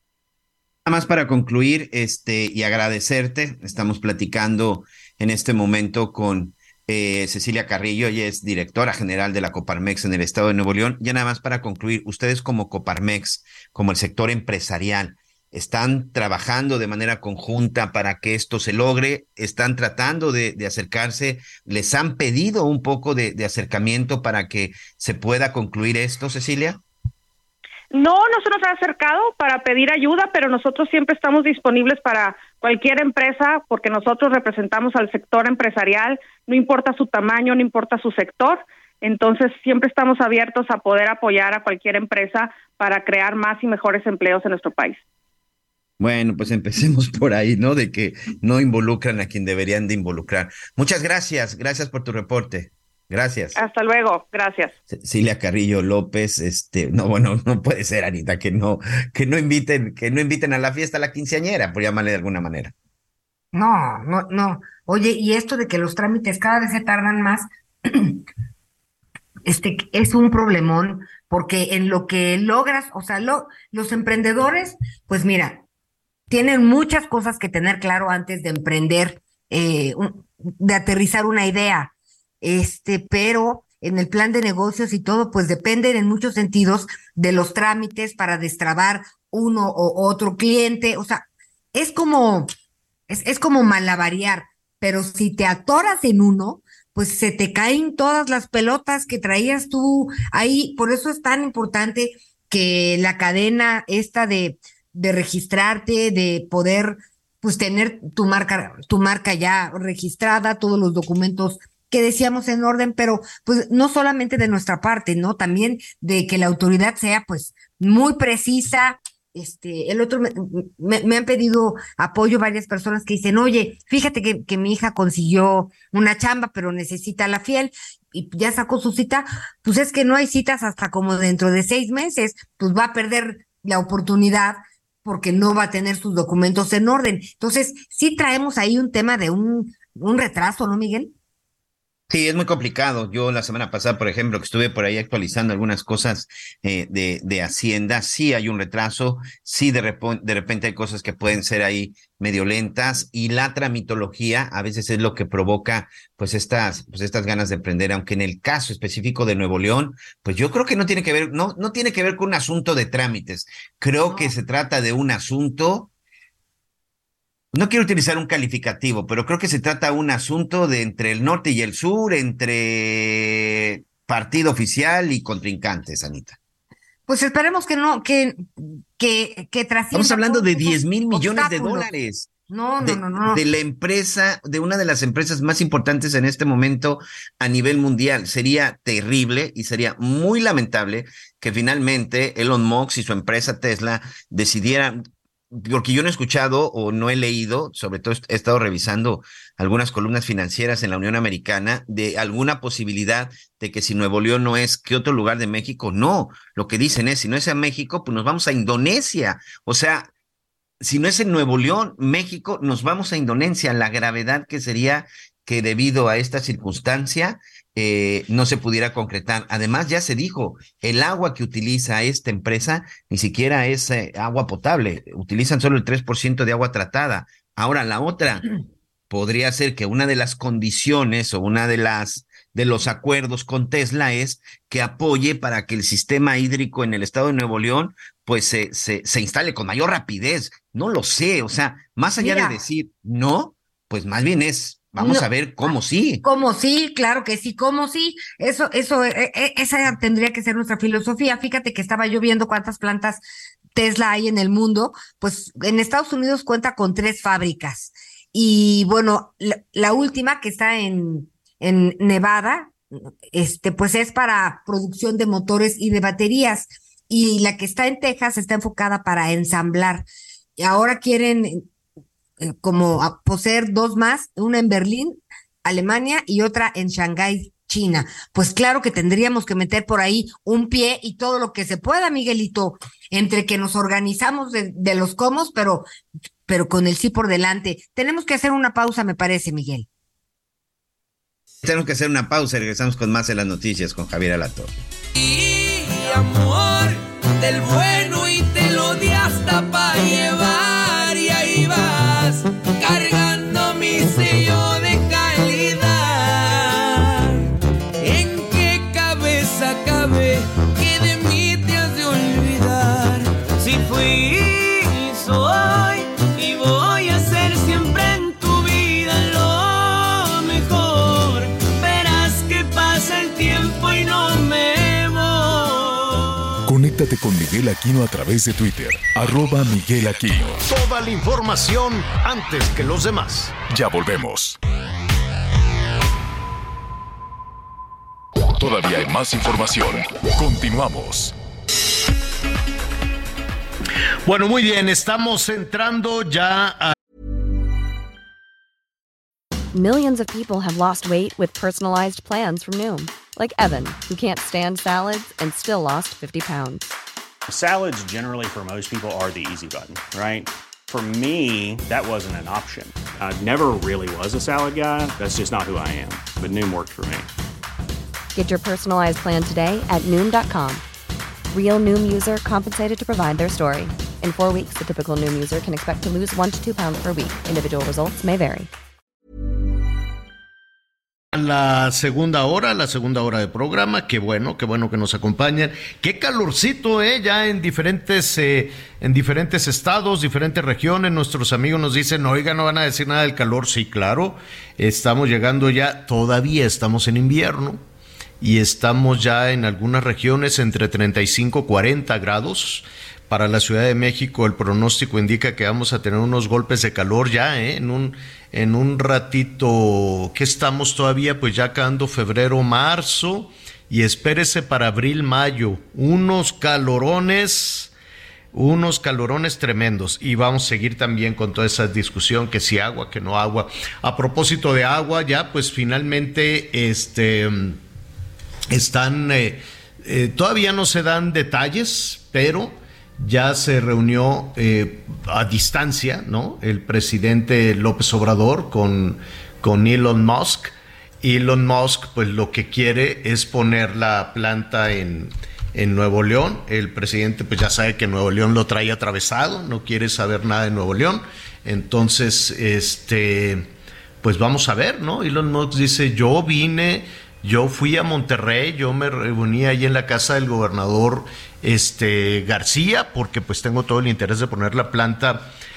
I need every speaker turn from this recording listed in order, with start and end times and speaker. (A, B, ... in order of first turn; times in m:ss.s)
0:00.9-0:26.8 A
0:27.9-0:45.0 B
0:46.0-0:53.6 A
0:53.6-0:54.7 B
0:54.9-1:02.7 A
1:03.5-1:08.2 C
1:09.5-1:15.6 C
1:16.3-1:21.9 C
1:22.4-1:32.5 C
1:33.1-2:21.1 C
2:22.1-2:45.9 A
2:44.1-2:44.3 C
2:47.5-2:56.4 A
2:57.1-3:01.9 C
2:59.9-3:02.3 A
3:02.5-3:03.4 C
3:02.8-3:30.1 A
3:30.8-3:48.5 A
3:49.1-4:06.2 A
4:02.2-4:02.6 C
4:05.0-4:05.3 C
4:06.2-4:13.2 C
4:13.8-4:22.7 C
4:23.3-4:30.1 C
4:30.6-4:31.7 C
4:32.4-4:45.9 C
4:46.5-4:49.9 C
4:51.6-4:54.7 A
4:55.2-5:07.5 D
5:08.0-5:26.3 D
5:26.7-5:30.6 E
5:30.7-5:33.6 F
5:33.7-5:34.6 E
5:38.6-5:41.4 E
5:44.2-5:47.0 F
5:49.7-5:56.9 G
5:57.5-6:07.3 H
6:08.4-6:10.8 G
6:11.5-6:18.7 G
6:21.3-6:37.8 F
6:38.4-6:57.9 F
6:58.5-7:07.8 F
7:08.7-7:45.5 F